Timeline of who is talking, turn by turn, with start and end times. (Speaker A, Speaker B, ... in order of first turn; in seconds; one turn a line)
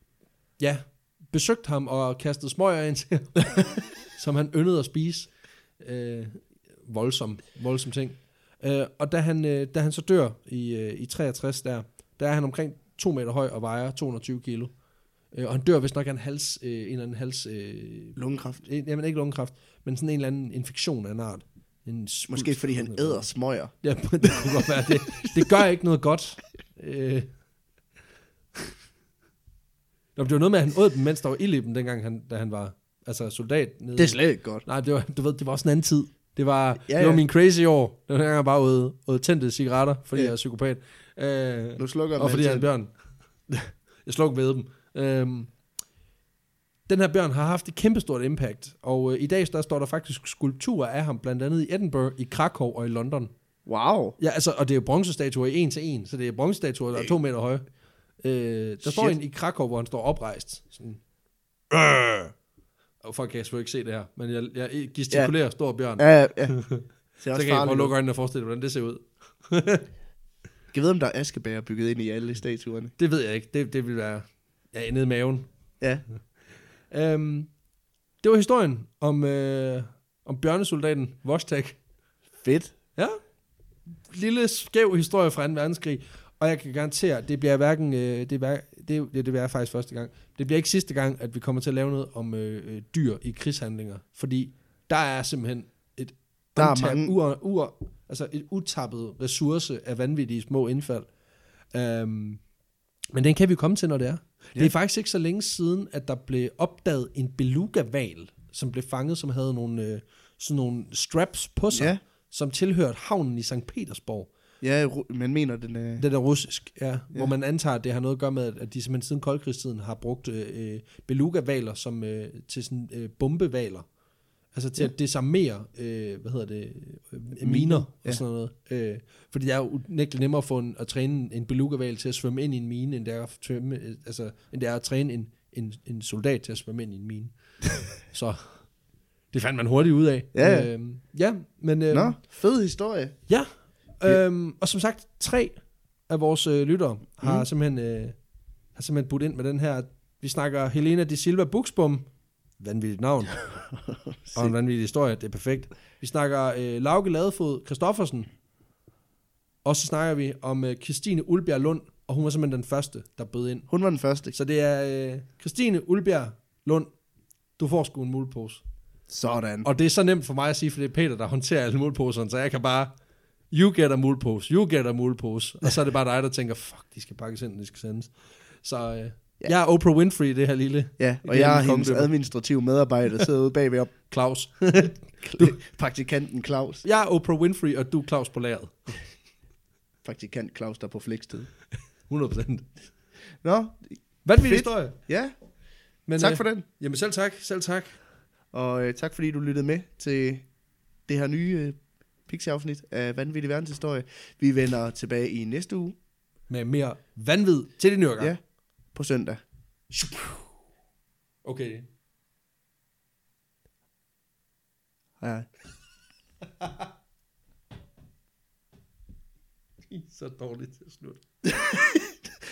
Speaker A: 0.6-14.7
Speaker A: 15.3-23.2
Speaker B: 18.1-18.6
Speaker B: 22.3-23.7
Speaker A: 23.8-27.3
Speaker B: 24.2-24.5
Speaker A: 30.1-42.9
Speaker B: 34.0-34.6
Speaker B: 36.8-37.2
Speaker B: 41.8-42.7
Speaker A: 44.0-45.5
Speaker A: 46.9-53.3
Speaker B: 53.6-54.2
Speaker A: 54.2-57.6
Speaker A: 58.2-61.0
Speaker B: 58.8-59.1
Speaker A: 61.7-62.3
Speaker A: 63.0-69.8
Speaker B: 66.0-66.5
Speaker B: 67.2-67.9
Speaker B: 70.7-72.9
Speaker A: 73.0-75.5
Speaker A: 76.9-77.5
Speaker A: 78.2-81.8
Speaker B: 82.4-82.7
Speaker A: 84.1-101.1
Speaker B: 96.5-97.1
Speaker A: 101.7-102.4
Speaker A: 103.1-114.3
Speaker B: 111.7-112.0
Speaker B: 114.6-116.0
Speaker A: 116.0-123.8
Speaker A: 124.5-137.3
Speaker B: 127.4-128.2
Speaker A: 138.1-138.6
Speaker A: 139.3-142.2
Speaker B: 140.3-140.7
Speaker B: 141.9-143.2
Speaker A: 143.3-145.6
Speaker A: 146.1-148.2
Speaker A: 148.7-152.1
Speaker A: 152.6-153.4
Speaker B: 153.9-154.5
Speaker A: 154.3-158.3
Speaker A: 159.6-163.7
Speaker B: 163.7-164.3
Speaker A: 164.3-166.9
Speaker A: 167.6-168.6
Speaker B: 169.1-169.7
Speaker A: 169.6-172.9
Speaker A: 173.5-178.1
Speaker A: 178.6-182.1
Speaker B: 181.0-183.9
Speaker A: 184.1-185.6
Speaker B: 185.2-186.8
Speaker A: 186.8-189.0
Speaker B: 190.0-191.5
Speaker A: 192.1-192.7
Speaker B: 193.4-195.3
Speaker A: 194.2-194.9
Speaker A: 196.1-197.9
Speaker B: 196.2-196.6
Speaker B: 198.5-200.4
Speaker B: 201.1-205.9
Speaker A: 206.5-208.3
Speaker B: 208.9-209.4
Speaker A: 209.9-210.4
Speaker A: 211.4-211.8
Speaker B: 215.2-215.5
Speaker A: 216.6-216.9
Speaker A: 219.9-221.2
Speaker B: 221.5-222.1